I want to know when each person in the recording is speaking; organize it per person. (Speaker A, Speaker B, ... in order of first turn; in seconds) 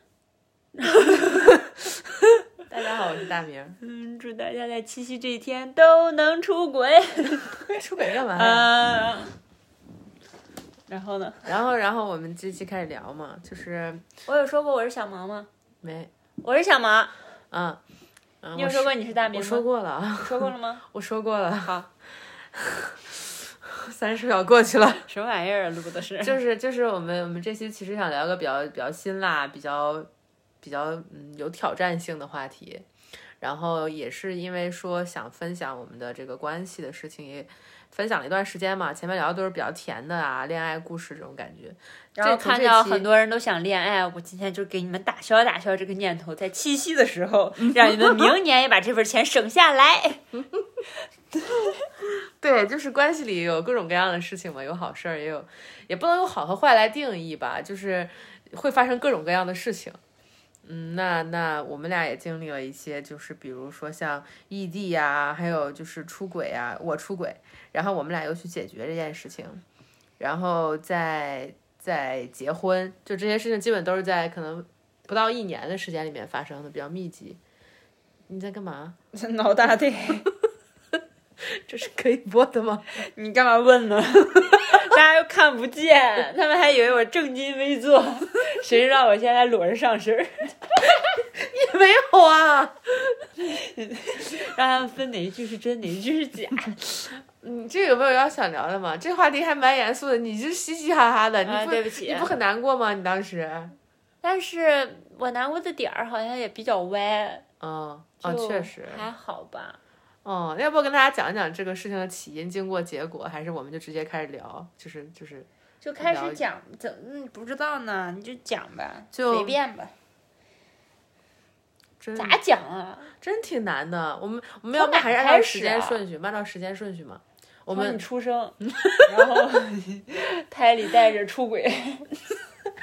Speaker A: 0.8-1.5, 3.8-7.6, 8.3-9.4, 10.9-11.5, 14.3-15.5, 16.4-17.1, 18.6-19.7, 20.2-20.8, 21.6-21.9, 25.1-26.4, 42.2-50.2, 51.5-51.7, 79.1-80.3, 83.0-90.7, 93.4-97.0, 101.4-102.3, 104.2-107.5, 108.2-109.8, 115.8-119.9, 122.2-123.1, 124.8-126.0, 127.7-132.1
Speaker B: 2.7-3.8, 7.6-8.7, 11.5-14.0, 15.8-16.1, 17.5-17.8, 18.4-21.9, 22.5-25.1, 26.2-30.1, 30.6-32.9, 33.4-43.1, 47.8-48.3, 52.4-60.0, 60.6-69.6, 70.2-77.4, 78.3-79.0, 81.7-82.9, 91.0-92.9, 97.2-103.8, 107.6-109.1, 110.2-115.5, 116.0-116.4, 119.1-119.6, 122.0-122.4, 123.2-128.0, 128.7-129.1